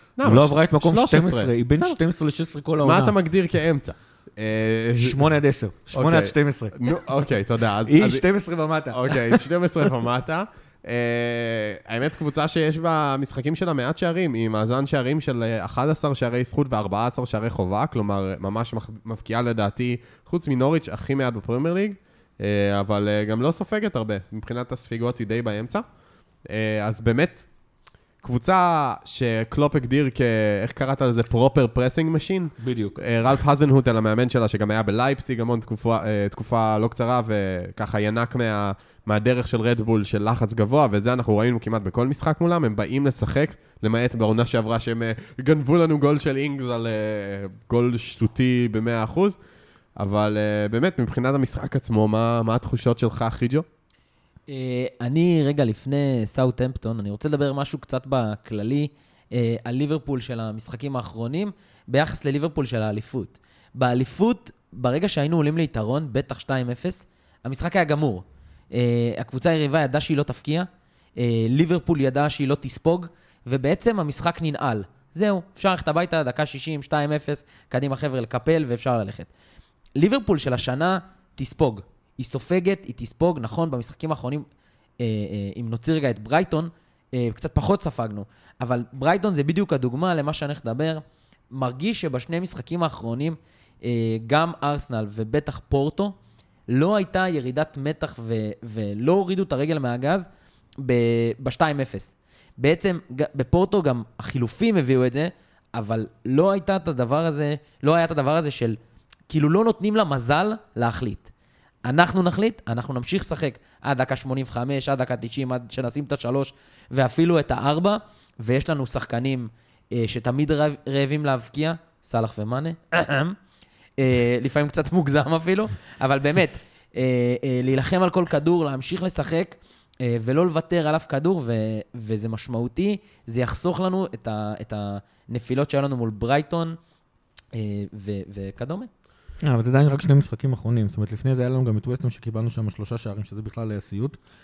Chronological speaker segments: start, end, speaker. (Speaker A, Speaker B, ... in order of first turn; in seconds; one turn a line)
Speaker A: 0.2-2.0
Speaker B: 0.2-3.1
Speaker A: 2.8-5.2
Speaker B: 5.0-6.8
Speaker A: 5.9-8.3
Speaker B: 7.9-9.4
Speaker A: 8.9-25.9
Speaker A: 26.4-27.5
Speaker A: 28.2-49.4
Speaker B: 32.6-33.0
Speaker A: 50.0-53.6
Speaker C: 54.5-79.3
Speaker C: 80.0-84.5
Speaker C: 85.0-96.2
Speaker C: 96.7-100.3
Speaker C: 100.8-108.8
Speaker C: 109.3-111.3
Speaker C: 111.8-123.4
Speaker C: 124.0-136.8
Speaker C: 137.5-138.9
Speaker B: 139.4-144.2